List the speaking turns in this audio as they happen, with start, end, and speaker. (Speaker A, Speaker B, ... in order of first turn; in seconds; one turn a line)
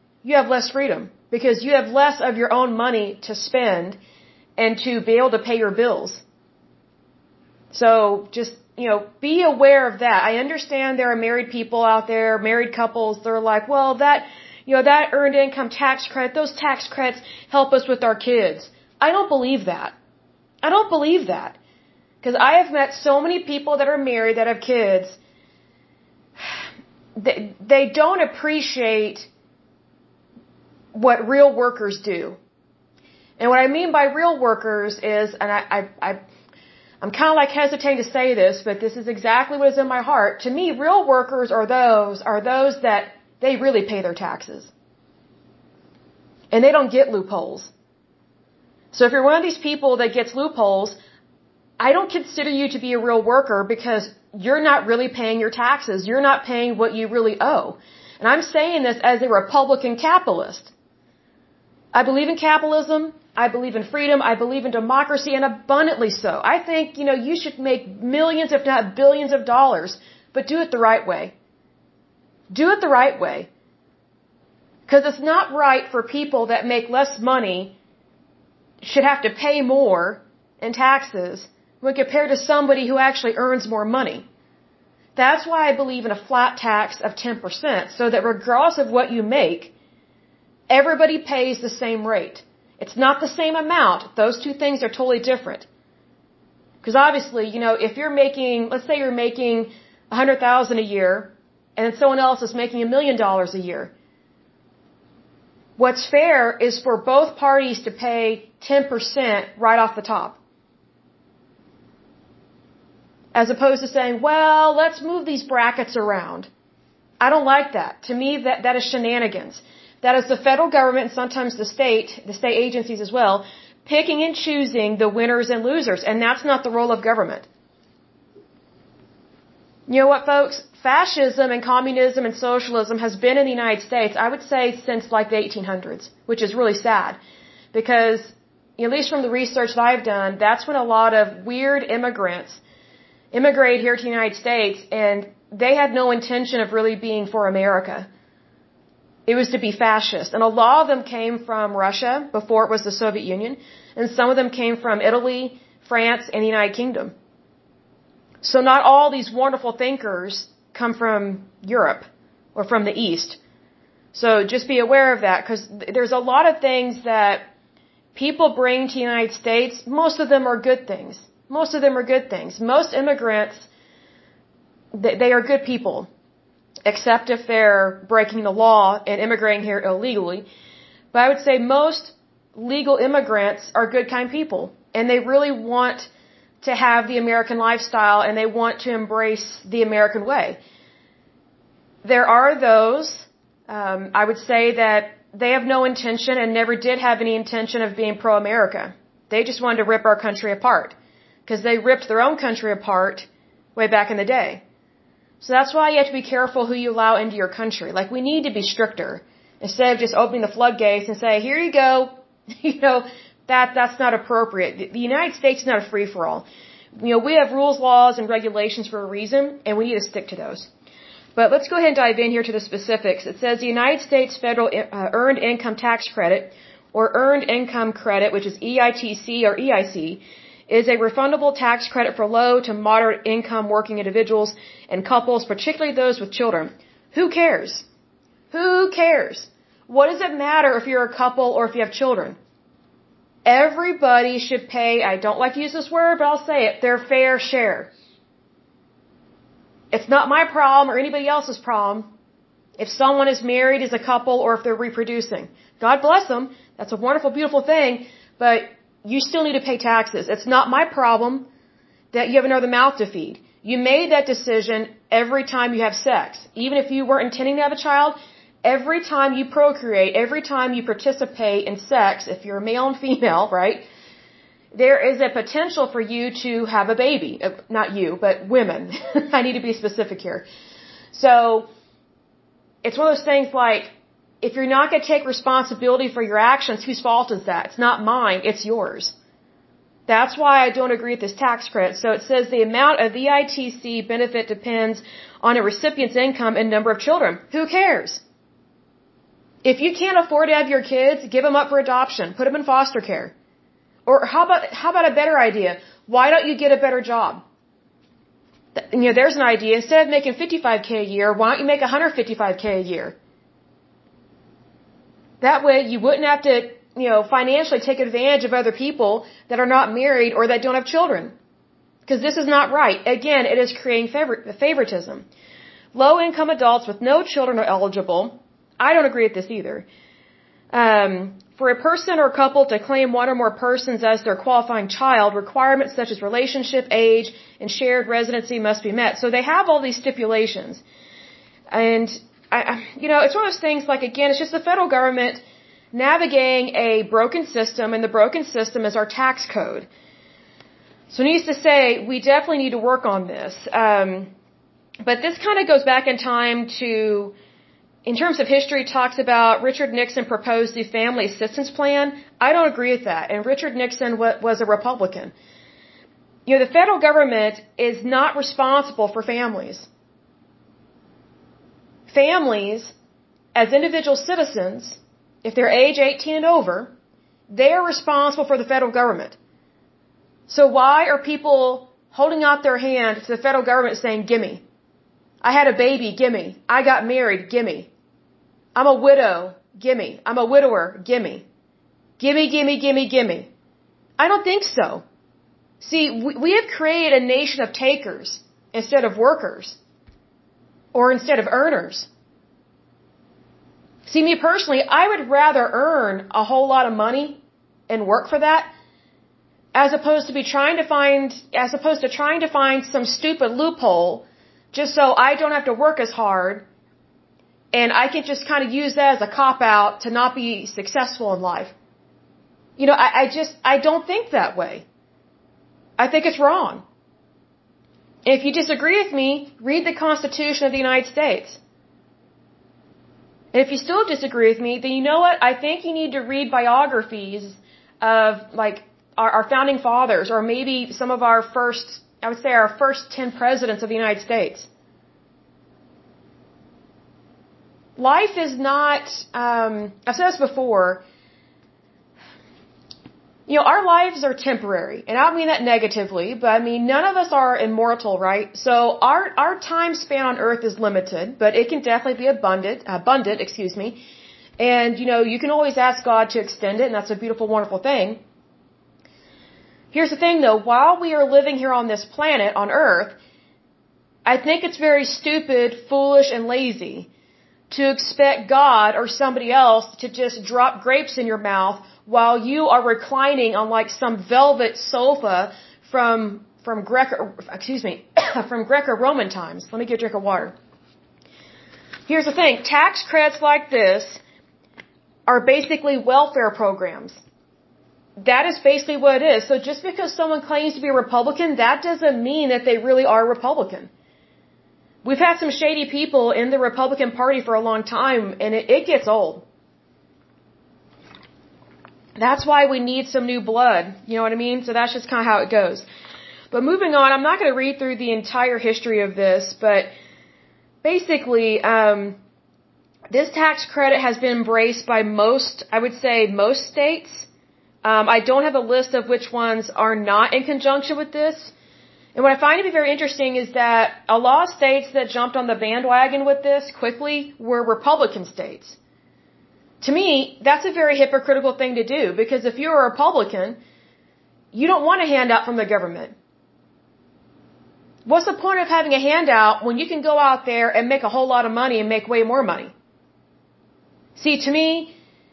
Speaker A: 0.2-4.0
Speaker A: 4.6-6.2
Speaker A: 7.7-19.9
Speaker A: 20.6-21.6
Speaker A: 22.2-25.2
Speaker A: 27.1-29.3
Speaker A: 30.9-32.4
Speaker A: 33.4-36.2
Speaker A: 37.0-44.7
Speaker A: 46.5-47.7
Speaker A: 48.9-51.0
Speaker A: 51.8-60.7
Speaker A: 61.9-71.3
Speaker A: 72.5-73.5
Speaker A: 74.9-77.7
Speaker A: 78.8-84.2
Speaker A: 85.2-89.7
Speaker A: 90.7-95.7
Speaker A: 96.8-103.9
Speaker A: 105.8-110.4
Speaker A: 113.3-116.5
Speaker A: 117.2-127.5
Speaker A: 129.9-137.2
Speaker A: 137.7-142.6
Speaker A: 143.3-148.1
Speaker A: 149.3-157.1
Speaker A: 158.4-163.4
Speaker A: 164.1-167.5
Speaker A: 168.1-173.7
Speaker A: 174.9-176.1
Speaker A: 176.8-180.4
Speaker A: 181.1-186.1
Speaker A: 186.6-190.6
Speaker A: 192.0-204.6
Speaker A: 205.4-212.1
Speaker A: 212.6-216.4
Speaker A: 217.0-220.7
Speaker A: 221.3-237.8
Speaker A: 238.5-242.4
Speaker A: 243.4-247.9
Speaker A: 249.9-252.1
Speaker A: 252.8-261.5
Speaker A: 262.1-273.8
Speaker A: 274.7-280.4
Speaker A: 281.1-281.7
Speaker A: 282.8-289.1
Speaker A: 290.1-298.2
Speaker A: 299.6-303.3
Speaker A: 304.1-307.4
Speaker A: 308.7-313.2
Speaker A: 315.4-321.3
Speaker A: 322.1-325.2
Speaker A: 325.9-329.9
Speaker A: 330.7-340.8
Speaker A: 341.7-349.9
Speaker A: 351.1-354.3
Speaker A: 355.0-357.3
Speaker A: 358.0-365.3
Speaker A: 366.4-369.9
Speaker A: 372.1-372.9
Speaker A: 373.5-376.9
Speaker A: 377.5-379.4
Speaker A: 380.5-384.6
Speaker A: 385.4-387.9
Speaker A: 388.7-391.4
Speaker A: 392.2-393.5
Speaker A: 394.2-395.0
Speaker A: 395.8-399.8
Speaker A: 400.9-402.1
Speaker A: 404.1-408.7
Speaker A: 409.7-416.6
Speaker A: 417.7-421.7
Speaker A: 422.8-424.9
Speaker A: 426.0-426.8
Speaker A: 428.2-431.6
Speaker A: 433.5-444.7
Speaker A: 448.0-451.0
Speaker A: 453.5-464.0
Speaker A: 464.6-468.2
Speaker A: 469.9-473.2
Speaker A: 474.2-477.1
Speaker A: 477.7-490.5
Speaker A: 492.1-494.2
Speaker A: 495.3-497.2
Speaker A: 498.2-503.9
Speaker A: 505.0-509.4
Speaker A: 512.2-515.8
Speaker A: 516.5-519.9
Speaker A: 520.8-522.2
Speaker A: 523.1-527.3
Speaker A: 527.8-531.5
Speaker A: 532.1-538.8
Speaker A: 539.8-543.6
Speaker A: 544.5-546.1
Speaker A: 548.0-552.7
Speaker A: 554.1-554.9